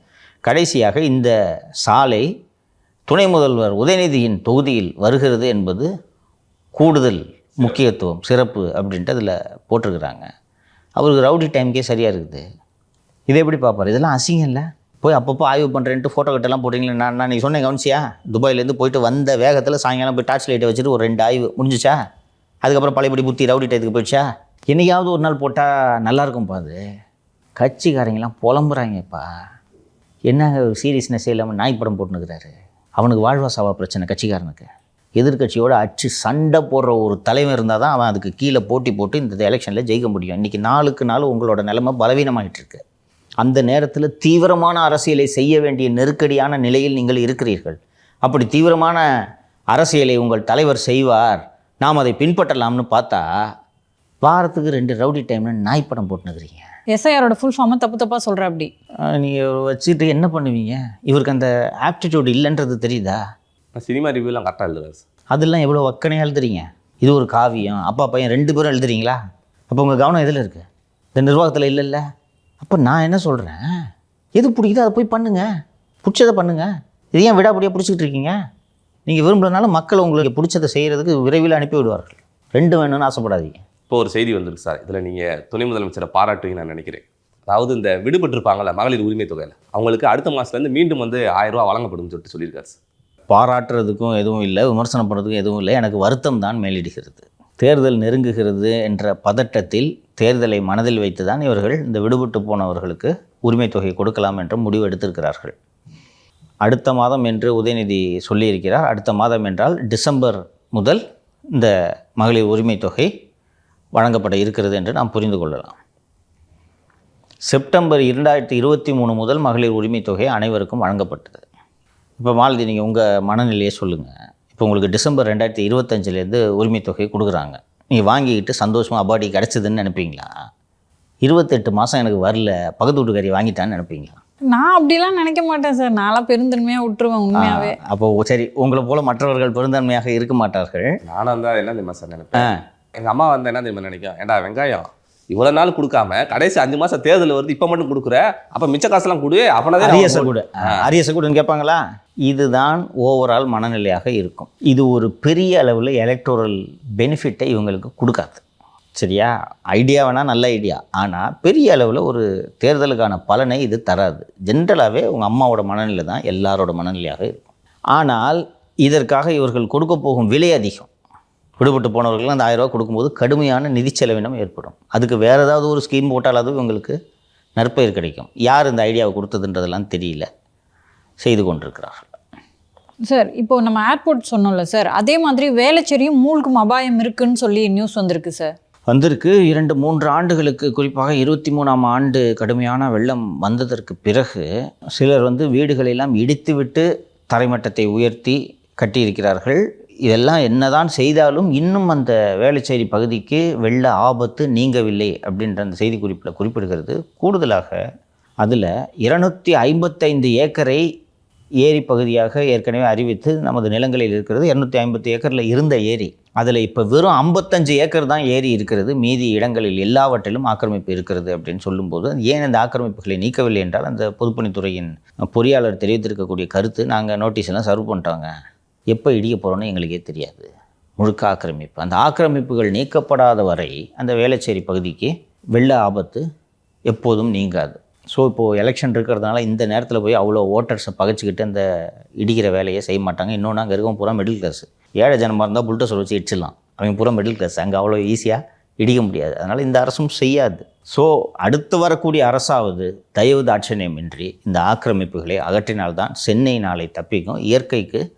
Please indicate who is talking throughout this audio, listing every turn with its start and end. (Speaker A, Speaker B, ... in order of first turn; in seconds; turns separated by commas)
Speaker A: 0.4-1.3, Speaker A: 1.8-2.3, Speaker A: 3.1-5.9, Speaker A: 6.8-10.3, Speaker A: 11.0-12.4, Speaker A: 13.3-22.0, Speaker A: 22.6-26.8, Speaker A: 27.6-29.2, Speaker A: 30.3-42.8, Speaker A: 43.4-49.0, Speaker A: 49.7-53.2, Speaker A: 54.2-56.7, Speaker B: 56.9-58.7, Speaker A: 59.1-63.2, Speaker C: 63.7-65.0, Speaker A: 65.3-69.2, Speaker A: 69.7-72.0, Speaker A: 72.6-73.6, Speaker A: 74.4-75.5, Speaker A: 76.0-78.3, Speaker A: 79.1-83.6, Speaker C: 83.9-92.8, Speaker A: 93.3-105.5, Speaker A: 106.7-111.0, Speaker A: 111.5-113.1, Speaker A: 114.0-115.8, Speaker A: 117.5-121.4, Speaker A: 122.2-130.3, Speaker A: 131.2-134.2, Speaker B: 134.5-137.8, Speaker A: 137.4-140.9, Speaker C: 141.1-150.9, Speaker A: 149.8-158.4, Speaker A: 159.0-170.9, Speaker A: 171.6-176.9, Speaker A: 177.6-180.3, Speaker A: 181.2-182.1, Speaker B: 183.1-188.5, Speaker A: 188.9-194.4, Speaker A: 195.0-207.8, Speaker A: 208.4-210.8, Speaker A: 211.6-228.3, Speaker A: 228.9-236.2, Speaker A: 236.9-241.6, Speaker A: 242.2-258.0